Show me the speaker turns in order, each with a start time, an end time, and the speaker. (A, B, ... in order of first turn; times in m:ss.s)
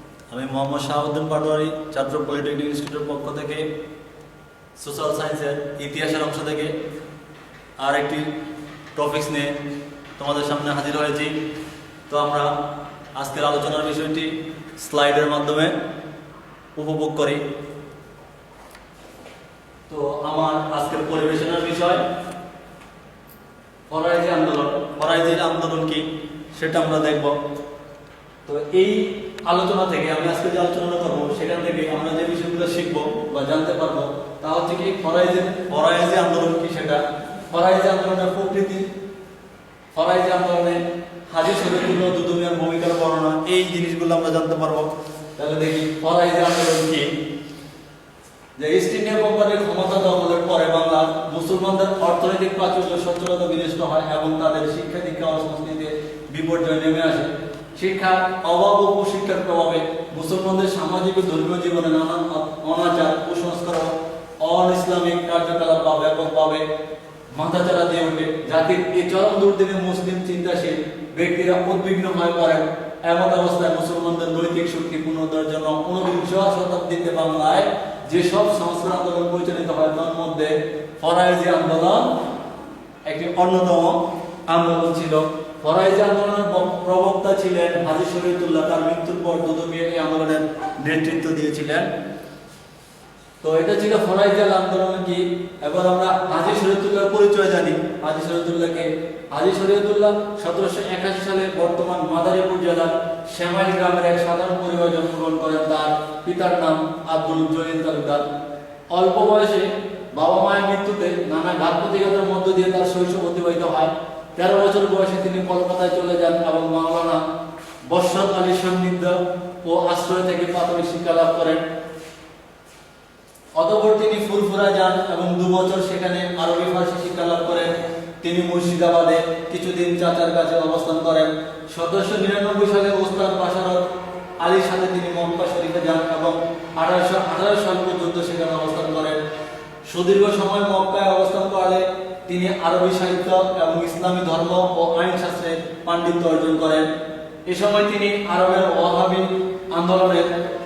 0:00.3-0:03.7 A
0:04.8-0:06.8 A
0:07.8-0:08.3 A
0:09.0-0:09.6 A
0:10.2-0:11.4 A
0:12.1-0:12.6 A
0:13.1-0:15.8 A
0:16.8-0:17.4 A
0:19.9-0:22.0 A
0:23.9-0:27.4 A
0:28.4-0:38.9 A
0:39.9-0:47.2 A
0:48.6-1:06.7 A
1:07.3-1:22.2 A
1:23.1-1:31.9 A
1:33.4-1:48.3 A
1:48.9-1:57.2 A
1:57.8-2:01.7 A
2:03.6-2:13.8 A
2:14.4-2:19.2 A
2:19.9-2:26.9 A
2:27.5-2:30.3 A